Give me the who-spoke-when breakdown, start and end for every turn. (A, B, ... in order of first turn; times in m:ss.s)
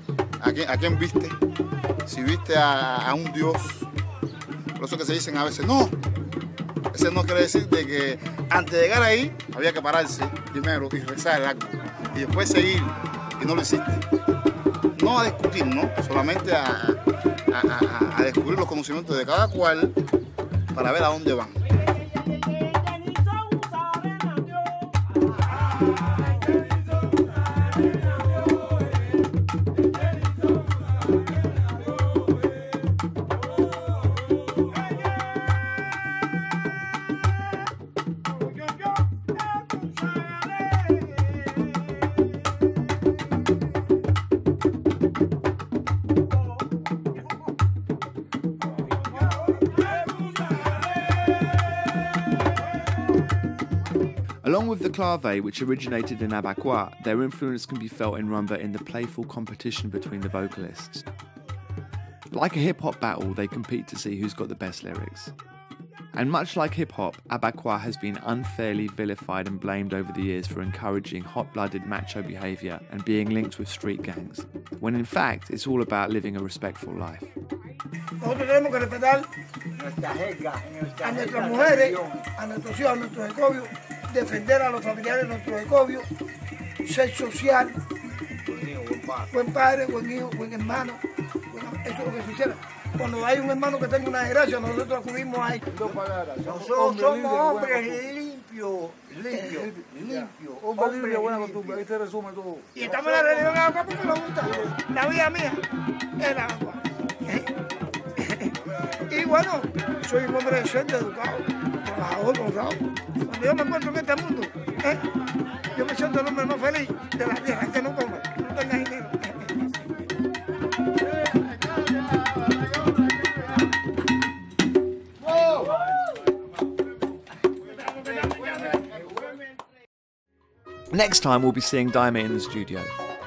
0:00.4-0:01.4 A
0:02.0-0:03.9 A
0:04.8-0:05.9 A
0:06.9-0:14.0 A
0:15.0-0:17.0 A
0:17.5-0:20.0 A
0:20.7-0:21.6 A
0:54.4-1:01.0 B
1:02.3-1:05.3 B
1:06.1-1:17.3 B
1:18.2-1:19.3 C
1:19.8-1:22.2 D
1:21.0-1:26.1 C
1:26.8-1:27.7 C
1:28.5-1:29.2 D
1:29.3-1:35.6 C
1:35.9-1:38.1 E
1:36.4-1:41.8 D
1:36.4-1:38.0 C
1:39.3-1:39.7 C
1:39.5-1:43.5 E
1:40.8-1:41.7 C
1:42.7-1:45.6 C
1:46.2-1:47.5 C
1:48.2-1:48.5 C
1:49.1-1:55.0 C
1:55.7-1:59.4 C
2:10.9-2:12.9 B